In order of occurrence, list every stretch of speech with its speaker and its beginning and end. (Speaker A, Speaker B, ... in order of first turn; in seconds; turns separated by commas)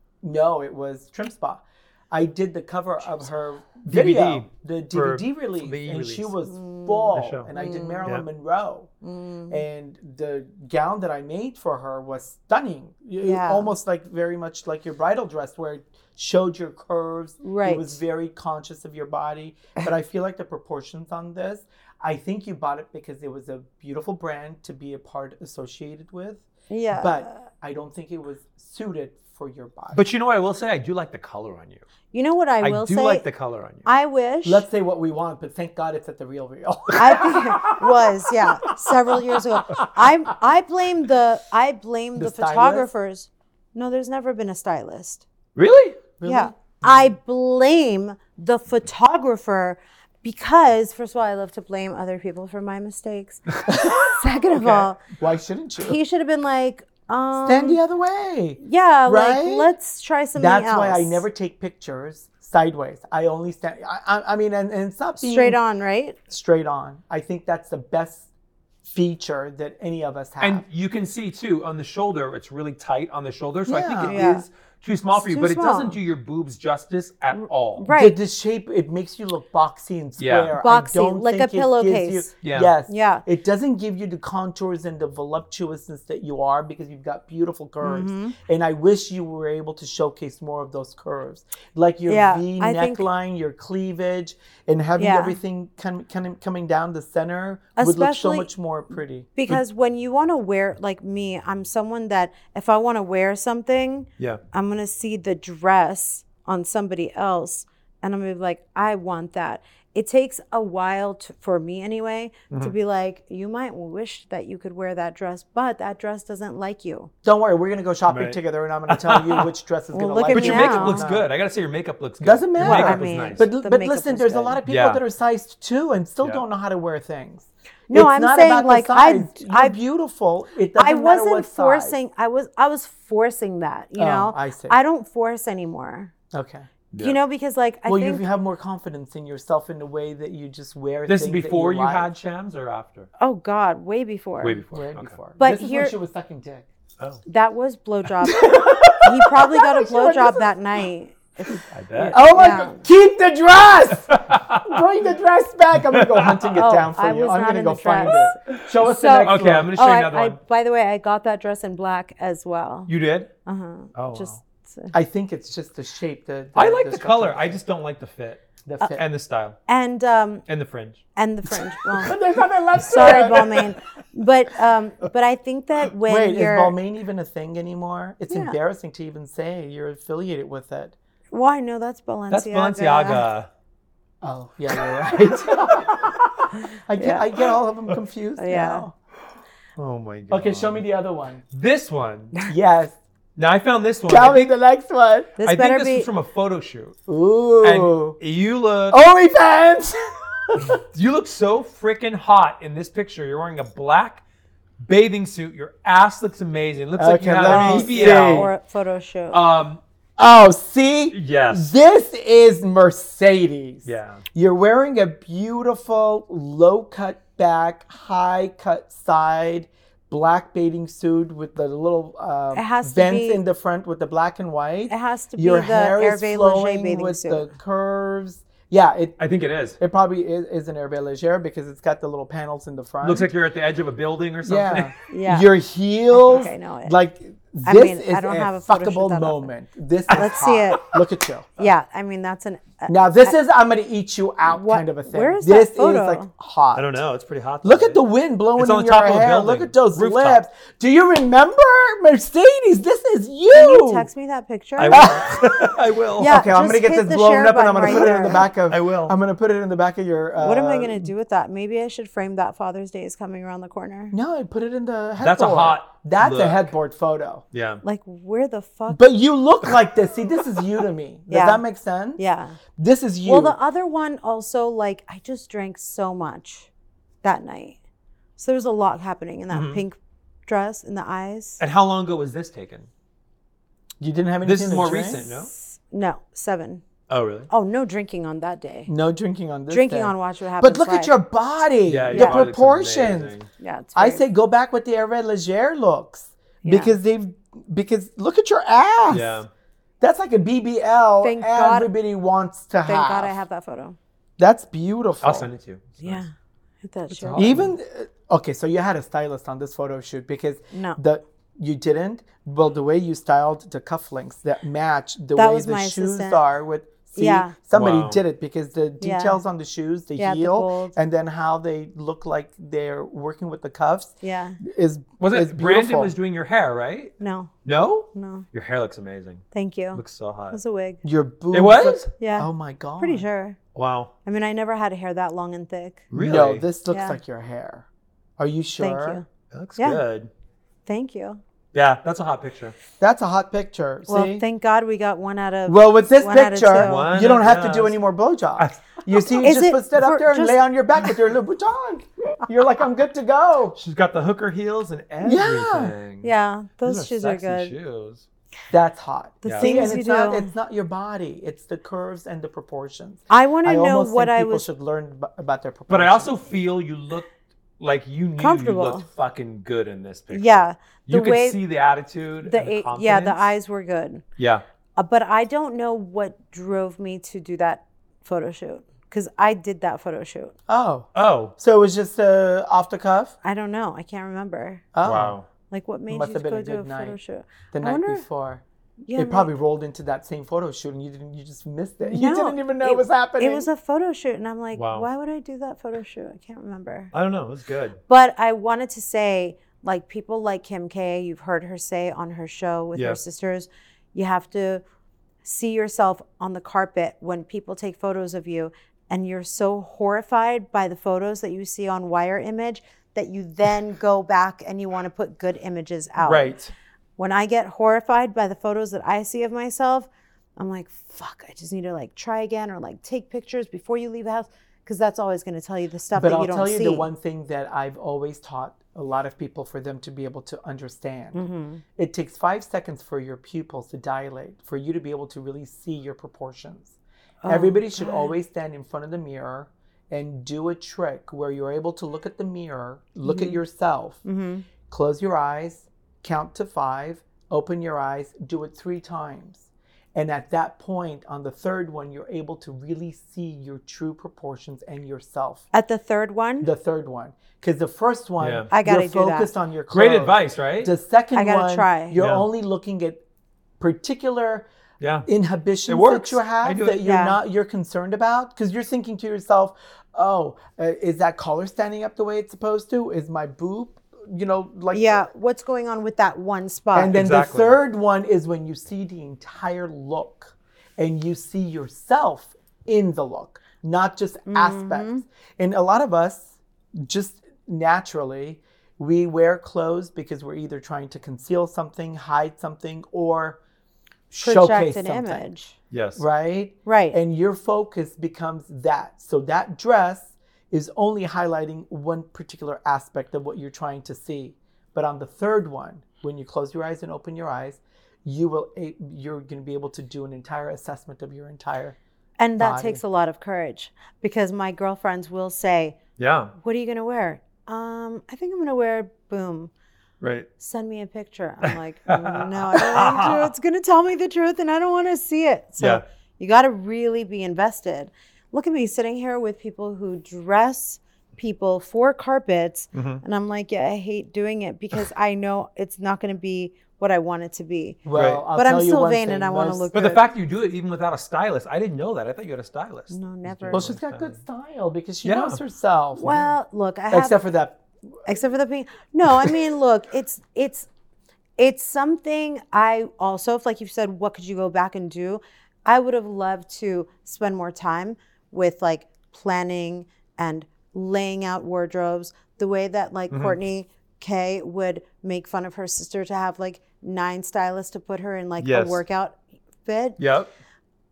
Speaker A: 0.2-8.9, Speaker B: 3.9-6.3, Speaker C: 6.5-8.1, Speaker B: 7.1-7.5, Speaker C: 9.0-9.6, Speaker A: 9.5-30.0, Speaker C: 13.2-13.7, Speaker C: 17.4-18.0, Speaker C: 26.7-27.4, Speaker B: 29.9-31.8, Speaker C: 32.1-33.3, Speaker B: 32.6-33.9, Speaker C: 33.9-34.7, Speaker A: 34.5-38.1, Speaker C: 37.0-45.2, Speaker B: 37.5-37.8, Speaker A: 42.2-42.9, Speaker B: 45.5-46.0, Speaker A: 46.2-47.1, Speaker C: 46.2-55.0, Speaker A: 53.7-56.0, Speaker C: 55.8-57.8, Speaker A: 57.4-59.7, Speaker C: 58.6-61.2, Speaker A: 60.4-65.6, Speaker C: 65.2-66.2, Speaker A: 66.3-68.3, Speaker A: 68.8-70.6, Speaker B: 70.4-77.9, Speaker A: 73.7-74.2, Speaker C: 74.0-74.5, Speaker C: 75.1-76.0, Speaker C: 77.3-78.2, Speaker A: 77.9-99.3, Speaker B: 80.2-80.5, Speaker C: 80.6-82.3, Speaker B: 82.4-82.7, Speaker C: 82.9-83.2, Speaker C: 87.8-88.4, Speaker C: 92.1-93.0, Speaker C: 95.0-95.4, Speaker C: 97.8-98.5, Speaker C: 99.4-117.1, Speaker A: 117.2-121.3, Speaker B: 118.1-119.5, Speaker C: 119.9-121.1, Speaker B: 120.3-123.5, Speaker A: 122.2-132.0, Speaker C: 122.6-124.6, Speaker B: 124.7-125.0, Speaker C: 127.9-129.8, Speaker C: 130.8-136.1, Speaker A: 134.0-134.8, Speaker A: 136.3-136.7, Speaker B: 136.9-137.2, Speaker C: 137.0-138.2, Speaker A: 137.9-142.1, Speaker B: 141.1-143.1, Speaker C: 143.2-144.6, Speaker B: 144.4-145.2, Speaker A: 144.7-146.7, Speaker C: 145.4-145.9, Speaker C: 147.3-152.8, Speaker A: 148.3-150.5, Speaker B: 151.6-152.2, Speaker A: 152.1-159.8, Speaker B: 154.1-154.8, Speaker B: 155.8-156.6, Speaker C: 156.6-162.9, Speaker B: 158.1-158.6, Speaker B: 159.2-160.4, Speaker B: 162.9-163.3, Speaker C: 163.4-164.9, Speaker B: 163.9-164.4, Speaker A: 164.9-167.6, Speaker B: 166.6-169.6, Speaker A: 168.6-169.0, Speaker C: 169.7-170.4, Speaker B: 170.5-171.0, Speaker C: 171.2-172.2, Speaker A: 171.9-173.7, Speaker C: 172.8-176.8, Speaker B: 172.9-173.6, Speaker A: 176.1-180.9, Speaker C: 178.3-178.6, Speaker C: 181.3-183.3, Speaker B: 182.3-183.5, Speaker A: 184.2-186.3, Speaker B: 184.8-186.3, Speaker C: 186.6-187.3, Speaker A: 186.9-188.9, Speaker C: 188.4-188.9, Speaker B: 189.8-190.8, Speaker A: 190.3-191.4, Speaker B: 191.5-192.3, Speaker A: 192.4-193.0, Speaker B: 193.4-194.5, Speaker A: 194.1-195.3, Speaker C: 195.4-196.1, Speaker B: 195.4-197.0, Speaker A: 197.1-198.2, Speaker B: 197.6-199.0, Speaker A: 198.9-200.8, Speaker B: 200.9-204.2, Speaker B: 204.8-208.5, Speaker A: 206.9-208.5, Speaker C: 207.4-209.4, Speaker B: 209.3-209.8, Speaker A: 210.2-229.2, Speaker B: 211.1-211.7, Speaker B: 213.8-214.2, Speaker C: 222.5-223.4, Speaker C: 224.9-227.5, Speaker B: 229.2-229.8, Speaker A: 229.8-233.3, Speaker B: 233.0-234.9, Speaker A: 234.4-241.5, Speaker C: 235.1-235.5, Speaker C: 236.1-237.0, Speaker C: 237.6-239.5, Speaker C: 240.1-240.9, Speaker B: 240.1-240.8, Speaker C: 241.6-243.4, Speaker A: 242.9-247.0, Speaker C: 244.4-246.3, Speaker B: 246.7-248.0, Speaker A: 247.6-254.1, Speaker B: 248.6-250.4, Speaker C: 253.5-255.1, Speaker B: 254.8-256.4, Speaker A: 254.9-261.1, Speaker C: 256.2-258.5, Speaker B: 258.7-259.2, Speaker C: 260.4-264.1, Speaker A: 264.1-267.4, Speaker B: 265.2-266.7, Speaker B: 267.5-267.8, Speaker C: 267.8-269.0, Speaker A: 268.9-272.2, Speaker C: 271.3-271.6, Speaker C: 272.2-272.6, Speaker A: 272.8-273.6, Speaker C: 273.2-276.7, Speaker C: 277.2-277.8, Speaker C: 278.4-281.6, Speaker B: 279.5-279.8, Speaker B: 281.6-282.9, Speaker A: 284.0-285.3, Speaker B: 284.4-285.5, Speaker C: 285.2-286.8, Speaker B: 287.1-287.5, Speaker C: 287.5-288.9, Speaker A: 288.9-293.4, Speaker C: 289.7-291.1, Speaker B: 291.9-293.5, Speaker C: 292.1-292.4, Speaker C: 293.6-294.2, Speaker A: 293.9-299.4, Speaker C: 296.6-296.9, Speaker B: 299.1-299.5, Speaker A: 300.0-303.4, Speaker C: 301.2-301.9, Speaker C: 302.9-304.0, Speaker A: 304.4-305.5, Speaker B: 305.2-306.2, Speaker C: 306.0-306.3, Speaker C: 306.8-307.6, Speaker B: 307.1-307.8, Speaker A: 307.4-326.1, Speaker C: 310.7-311.0, Speaker C: 315.4-316.4, Speaker C: 317.1-317.6, Speaker B: 317.7-318.2, Speaker C: 319.0-319.4, Speaker C: 320.2-320.9, Speaker C: 324.2-324.6, Speaker B: 325.2-327.1, Speaker C: 327.2-327.5, Speaker B: 327.6-330.6, Speaker C: 328.1-328.4, Speaker C: 329.5-331.0, Speaker A: 331.0-333.3, Speaker B: 331.5-332.1, Speaker C: 332.2-333.6, Speaker B: 333.8-334.1, Speaker C: 334.2-336.1, Speaker B: 336.1-336.6, Speaker A: 336.1-337.9, Speaker C: 336.9-337.2, Speaker A: 338.4-339.2, Speaker C: 338.8-339.2, Speaker B: 339.5-340.3, Speaker C: 339.8-340.0, Speaker C: 340.9-341.4, Speaker B: 341.7-342.8, Speaker A: 343.0-344.4, Speaker C: 344.1-347.1, Speaker A: 345.7-353.8, Speaker B: 346.8-348.0, Speaker B: 348.6-349.2, Speaker C: 349.4-350.6, Speaker B: 353.8-356.3, Speaker A: 355.2-355.9, Speaker C: 356.2-357.7, Speaker B: 356.9-358.2, Speaker A: 358.7-366.3, Speaker B: 359.4-359.9, Speaker C: 359.4-360.5, Speaker C: 363.3-364.7, Speaker B: 365.9-373.4, Speaker C: 368.4-369.1, Speaker C: 370.3-371.6, Speaker C: 372.4-374.2, Speaker B: 374.4-374.6, Speaker C: 375.0-380.6, Speaker A: 380.7-383.4, Speaker B: 381.1-381.6, Speaker C: 383.4-384.9, Speaker A: 384.9-385.4, Speaker B: 385.0-385.4, Speaker C: 385.7-388.2, Speaker A: 386.1-387.2, Speaker A: 387.7-388.6, Speaker C: 389.0-389.5, Speaker A: 389.1-393.7, Speaker C: 392.1-397.1, Speaker B: 394.7-395.1, Speaker B: 397.1-398.0, Speaker C: 398.1-404.8, Speaker B: 402.9-403.2, Speaker C: 405.4-416.6, Speaker B: 416.2-416.7, Speaker C: 417.2-427.1, Speaker A: 426.1-431.4, Speaker C: 431.3-431.8, Speaker A: 431.9-436.9, Speaker C: 437.4-438.3, Speaker A: 437.5-444.2, Speaker C: 443.2-443.6, Speaker C: 444.2-444.7, Speaker A: 444.9-455.6, Speaker C: 455.7-456.7, Speaker A: 456.6-463.2, Speaker B: 458.4-458.7, Speaker C: 458.7-459.5, Speaker B: 459.9-460.9, Speaker C: 461.4-462.2, Speaker B: 462.2-462.5, Speaker A: 463.8-464.7, Speaker B: 465.0-465.3, Speaker A: 465.3-475.3, Speaker B: 465.9-467.0, Speaker C: 467.0-467.4, Speaker C: 474.9-477.2, Speaker A: 476.9-493.6, Speaker B: 477.1-477.8, Speaker C: 484.5-485.2, Speaker A: 494.3-495.5, Speaker C: 494.4-495.7, Speaker B: 495.9-496.2, Speaker A: 496.2-512.0, Speaker C: 496.9-497.2, Speaker C: 512.4-516.0, Speaker A: 512.6-513.0, Speaker B: 516.2-516.5, Speaker C: 516.6-519.7, Speaker B: 520.2-520.5, Speaker C: 520.6-540.2, Speaker B: 521.6-523.5, Speaker B: 532.9-533.2, Speaker A: 538.0-539.9, Speaker B: 538.1-538.4, Speaker B: 539.9-544.4, Speaker C: 543.1-544.0, Speaker A: 543.7-546.5, Speaker B: 545.2-545.6, Speaker C: 546.2-547.4, Speaker A: 547.1-547.8, Speaker C: 548.3-550.9, Speaker C: 551.6-570.2, Speaker B: 563.3-563.6, Speaker B: 568.6-569.0, Speaker B: 570.2-570.5